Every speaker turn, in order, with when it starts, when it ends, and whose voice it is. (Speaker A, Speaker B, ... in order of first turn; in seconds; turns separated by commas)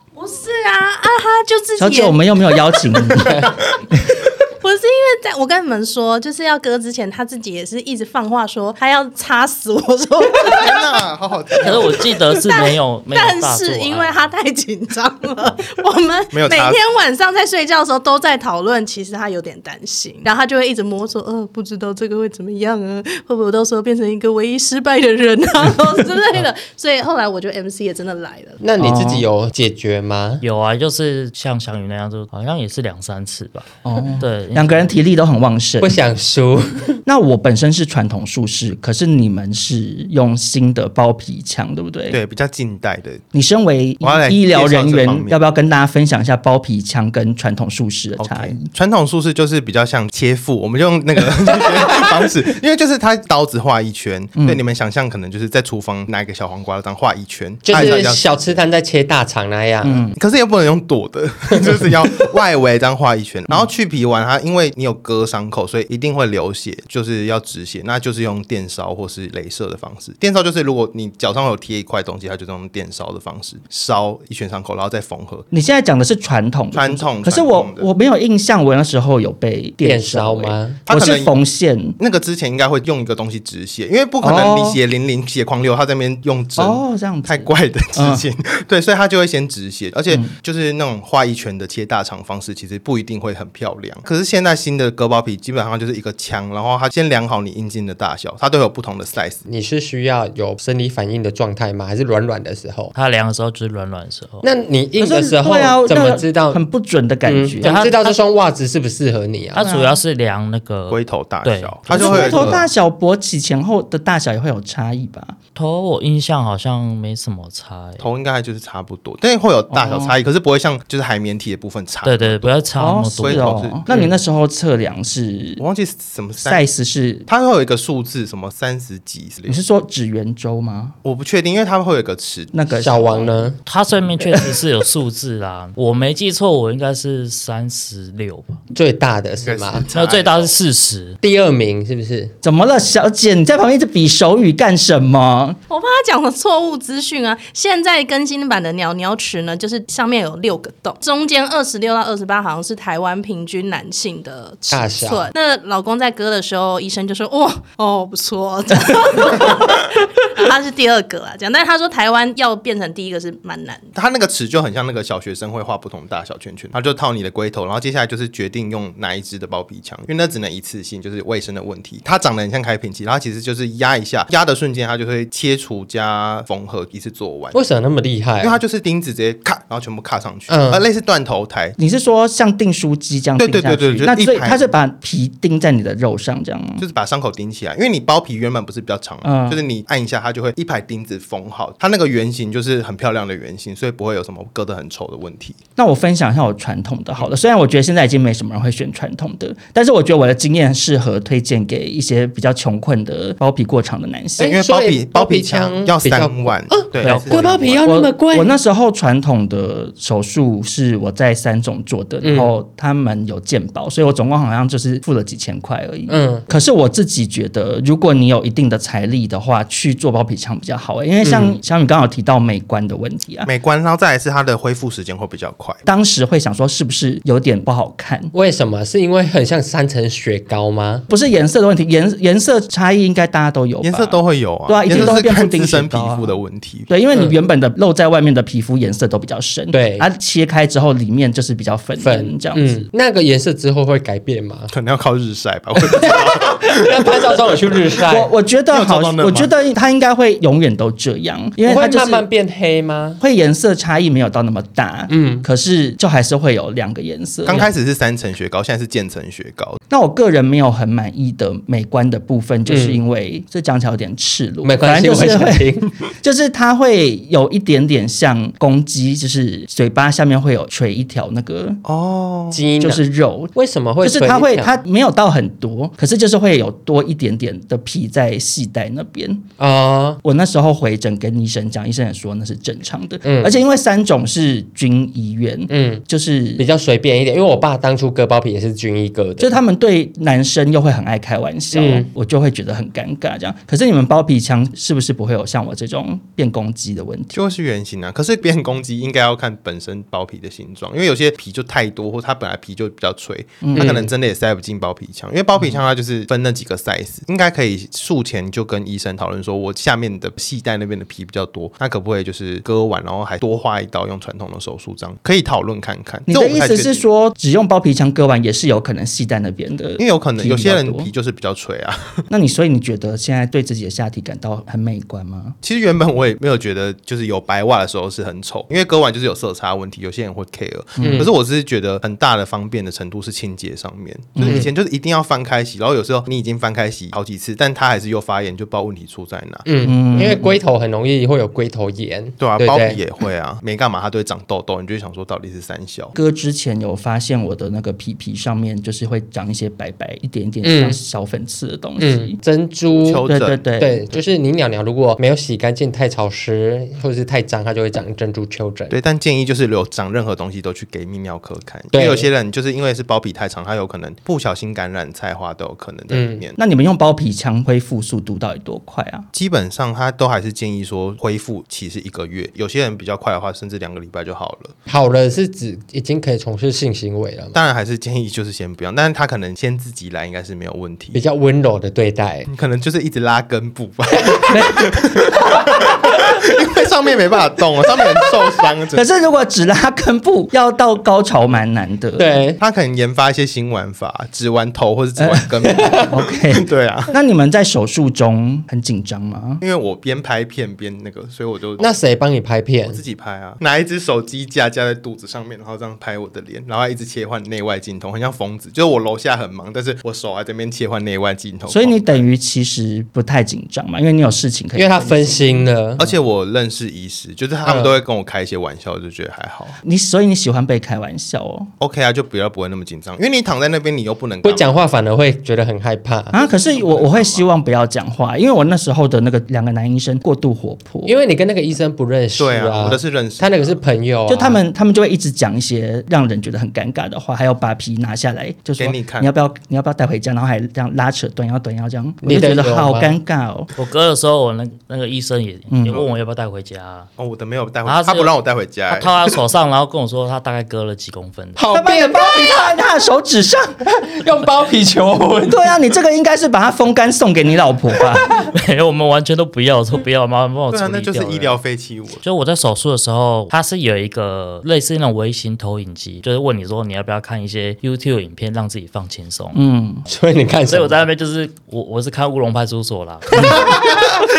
Speaker A: 0.1-2.9, Speaker B: 1.8-3.4, Speaker C: 3.1-3.5, Speaker A: 4.6-11.0, Speaker D: 10.4-12.2, Speaker E: 11.6-14.3, Speaker A: 12.3-28.6, Speaker D: 16.3-16.8, Speaker C: 28.6-30.4, Speaker B: 28.8-29.3, Speaker E: 30.4-34.9, Speaker B: 33.8-36.0, Speaker C: 35.8-37.0, Speaker B: 37.0-42.2, Speaker D: 42.1-43.2, Speaker B: 43.3-48.7, Speaker D: 44.0-45.4, Speaker D: 48.2-58.6, Speaker B: 54.4-54.6, Speaker C: 57.6-60.1, Speaker B: 59.8-60.1, Speaker D: 60.1-75.5, Speaker C: 61.5-61.9, Speaker B: 75.5-82.0, Speaker D: 76.7-77.9, Speaker C: 79.8-80.8, Speaker D: 80.8-81.3, Speaker D: 82.0-99.4, Speaker B: 84.2-84.8, Speaker B: 86.6-88.2, Speaker C: 99.5-102.9, Speaker E: 102.9-104.5, Speaker C: 104.4-106.6, Speaker B: 105.0-107.8, Speaker C: 107.2-109.6, Speaker E: 107.6-108.2, Speaker E: 109.5-112.6, Speaker B: 109.6-110.0, Speaker D: 110.9-112.7, Speaker B: 111.9-115.3, Speaker E: 115.5-118.0, Speaker D: 118.0-122.7, Speaker B: 119.7-120.2, Speaker E: 122.0-123.6, Speaker B: 122.8-125.6, Speaker D: 123.2-124.1, Speaker D: 125.6-126.7, Speaker B: 126.4-127.3, Speaker D: 127.3-129.6, Speaker B: 129.5-131.0, Speaker D: 131.0-132.5, Speaker B: 132.5-133.5, Speaker C: 132.7-133.6, Speaker E: 133.6-138.6, Speaker C: 138.7-139.8, Speaker D: 139.4-140.6, Speaker E: 139.9-141.2, Speaker C: 141.2-142.3, Speaker B: 142.4-145.6, Speaker A: 145.7-163.9, Speaker C: 154.7-155.3, Speaker D: 163.9-177.6, Speaker C: 177.5-178.6, Speaker D: 178.4-181.8, Speaker C: 180.5-180.8, Speaker B: 181.8-186.8, Speaker D: 183.4-184.7, Speaker D: 186.8-195.6, Speaker B: 189.2-189.6, Speaker B: 195.8-204.6, Speaker C: 204.4-208.6, Speaker D: 204.4-208.0, Speaker B: 207.0-223.5, Speaker C: 212.2-212.5, Speaker C: 216.1-216.4, Speaker C: 221.2-221.6, Speaker D: 223.4-225.8, Speaker B: 225.8-228.3, Speaker C: 228.3-231.1, Speaker B: 231.1-242.8, Speaker D: 233.8-236.9, Speaker C: 234.9-235.2, Speaker C: 237.1-237.4, Speaker C: 239.7-240.1, Speaker C: 242.0-244.7, Speaker D: 244.7-247.7, Speaker C: 245.8-248.3, Speaker B: 248.1-252.3, Speaker D: 248.7-249.5, Speaker C: 251.6-253.2, Speaker B: 253.2-257.7, Speaker C: 255.1-255.5, Speaker D: 257.4-259.8, Speaker B: 259.9-271.8, Speaker C: 262.6-263.0, Speaker C: 264.6-265.9, Speaker D: 271.8-272.6, Speaker C: 272.5-274.8, Speaker B: 272.8-279.4, Speaker C: 279.6-280.2, Speaker B: 280.2-286.6, Speaker C: 283.2-283.6, Speaker C: 285.7-286.0, Speaker C: 286.6-289.6, Speaker B: 289.4-297.4, Speaker C: 291.7-292.1, Speaker D: 297.3-317.0, Speaker B: 303.6-304.0, Speaker C: 303.8-304.1, Speaker B: 316.3-321.1, Speaker D: 320.0-322.2, Speaker B: 322.3-325.6, Speaker D: 325.6-340.3, Speaker B: 331.0-331.3, Speaker C: 331.0-331.3, Speaker B: 334.4-334.6, Speaker C: 339.6-343.0, Speaker B: 339.8-340.6, Speaker D: 342.4-346.1, Speaker B: 346.1-352.4, Speaker C: 350.6-351.0, Speaker C: 352.0-353.2, Speaker D: 352.9-353.6, Speaker B: 353.3-354.0, Speaker C: 353.8-358.9, Speaker D: 358.9-366.6, Speaker C: 361.9-362.3, Speaker C: 366.1-366.4, Speaker B: 366.6-369.3, Speaker D: 369.3-374.7, Speaker C: 374.9-377.6, Speaker D: 377.5-381.2, Speaker C: 381.1-382.5, Speaker D: 382.5-389.0, Speaker C: 384.2-385.9, Speaker B: 388.9-392.3, Speaker C: 392.2-392.6, Speaker D: 392.6-397.1, Speaker B: 395.2-395.4, Speaker C: 395.6-396.1, Speaker B: 396.1-399.6, Speaker D: 399.6-402.0, Speaker C: 401.8-403.0, Speaker D: 402.9-412.2, Speaker B: 411.7-415.7, Speaker C: 414.7-416.0, Speaker D: 416.0-419.8, Speaker C: 417.6-418.0, Speaker B: 419.8-421.7, Speaker D: 421.8-424.7, Speaker C: 424.4-426.3, Speaker B: 426.3-431.1, Speaker D: 426.3-427.4, Speaker C: 431.0-434.6, Speaker D: 432.4-433.8, Speaker B: 434.3-443.7, Speaker D: 438.8-439.3, Speaker C: 442.2-443.2, Speaker E: 443.8-447.1, Speaker B: 445.7-446.0, Speaker D: 447.2-449.4, Speaker E: 447.8-448.3, Speaker E: 448.9-451.6, Speaker C: 451.6-452.8, Speaker B: 451.7-453.8, Speaker C: 453.8-455.8, Speaker B: 455.5-458.3, Speaker E: 458.3-461.6, Speaker D: 460.7-462.2, Speaker E: 462.2-469.6, Speaker B: 469.5-470.1, Speaker C: 470.1-471.0, Speaker E: 470.6-474.0, Speaker C: 473.3-474.2